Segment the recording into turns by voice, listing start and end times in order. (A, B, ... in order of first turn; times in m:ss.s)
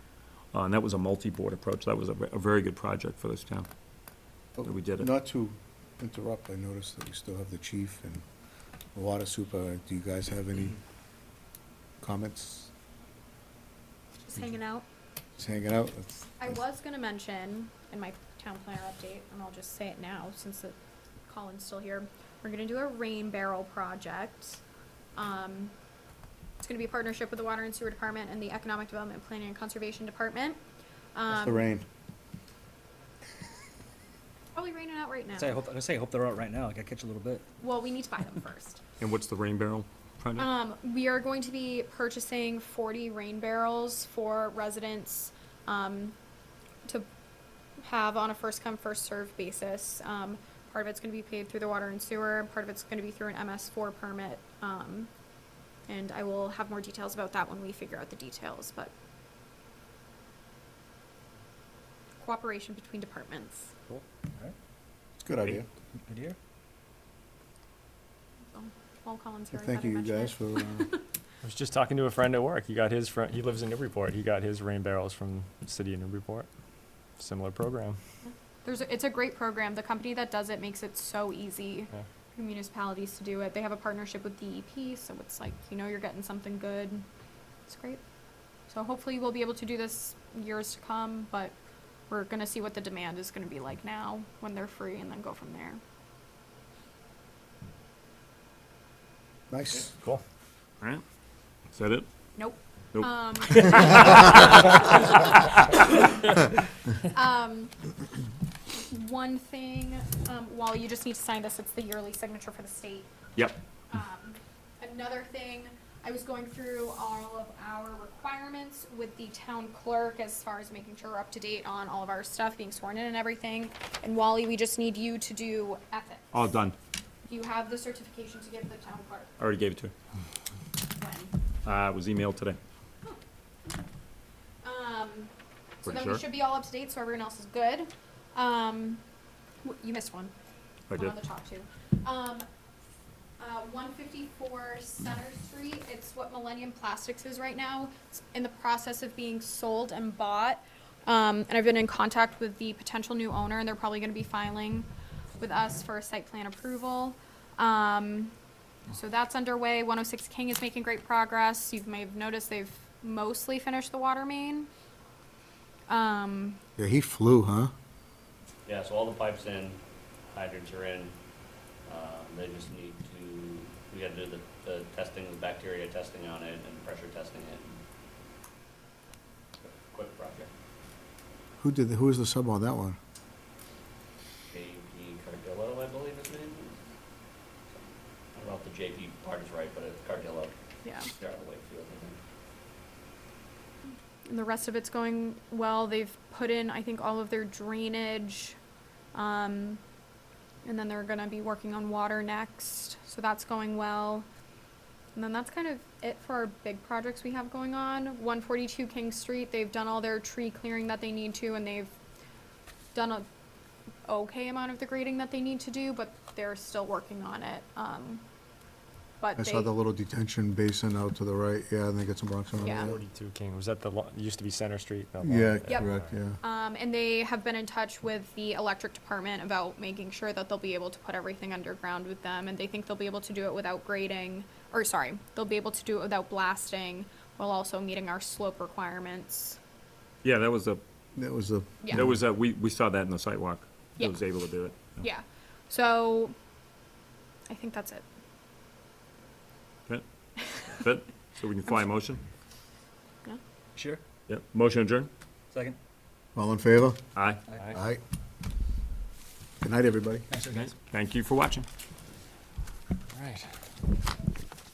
0:00.5-0:03.7 A
0:04.6-0:08.2 B
0:04.6-0:05.1 A
0:09.0-0:10.8 B
0:12.0-0:12.7 B
0:14.2-0:14.8 C
0:15.4-0:16.2 B
0:16.4-0:20.8 C
0:21.3-0:24.6 C
0:25.2-0:25.7 C
0:26.6-0:30.6 C
0:31.2-0:31.7 C
0:31.3-0:31.8 B
0:34.6-0:35.6 C
0:35.3-0:37.5 D
0:37.6-0:38.8 C
0:39.0-0:40.5 A
0:40.4-0:46.2 C
0:47.8-0:55.1 C
0:55.9-0:58.9 C
1:02.2-1:03.7 C
1:03.9-1:04.6 D
1:05.2-1:05.7 B
1:05.5-1:06.4 D
1:08.5-1:11.0 C
1:09.5-1:10.9 B
1:11.4-1:16.5 E
1:17.2-1:18.0 E
1:18.2-1:27.0 C
1:27.7-1:28.0 C
1:28.7-1:31.6 C
1:32.1-1:35.8 C
1:39.5-1:39.9 B
1:41.7-1:42.1 A
1:42.4-1:44.1 C
1:42.9-1:44.7 A
1:44.7-1:45.0 C
1:47.0-1:47.7 C
1:48.7-1:53.1 C
1:53.9-2:06.3 C
2:06.3-2:06.8 A
2:07.3-2:09.3 C
2:09.4-2:09.9 A
2:11.0-2:11.3 C
2:11.6-2:12.6 A
2:14.6-2:15.3 C
2:15.8-2:19.0 C
2:15.8-2:16.2 A
2:19.6-2:20.3 C
2:20.9-2:21.2 A
2:20.9-2:22.5 C
2:23.4-2:34.9 C
2:35.4-2:38.3 C
2:38.9-2:44.7 C
2:45.9-2:46.6 C
2:46.8-2:47.7 B
2:48.7-2:49.8 F
2:50.3-2:51.2 F
2:51.9-2:57.8 F
2:59.6-3:00.5 F
3:01.6-3:03.0 B
3:04.5-3:06.8 F
3:08.4-3:12.2 F
3:10.8-3:11.1 C
3:14.2-3:18.6 C
3:19.1-3:19.8 C
3:20.6-3:24.3 C
3:25.2-3:31.9 C
3:32.9-3:33.3 C
3:34.1-3:38.2 C
3:39.2-3:39.7 C
3:39.4-3:43.0 B
3:42.6-3:42.9 C
3:42.6-3:46.2 E
3:45.2-3:46.4 B
3:45.7-3:59.6 C
4:00.2-4:00.8 A
4:01.2-4:02.2 B
4:01.9-4:05.0 A
4:04.9-4:06.4 C
4:07.5-4:08.0 C
4:10.7-4:12.2 A
4:13.8-4:14.0 D
4:14.3-4:15.1 A
4:15.5-4:15.8 D
4:16.4-4:17.0 B
4:17.2-4:17.4 A
4:17.5-4:17.7 D
4:17.7-4:18.0 B
4:19.6-4:20.3 B
4:20.3-4:20.8 D
4:20.8-4:21.7 A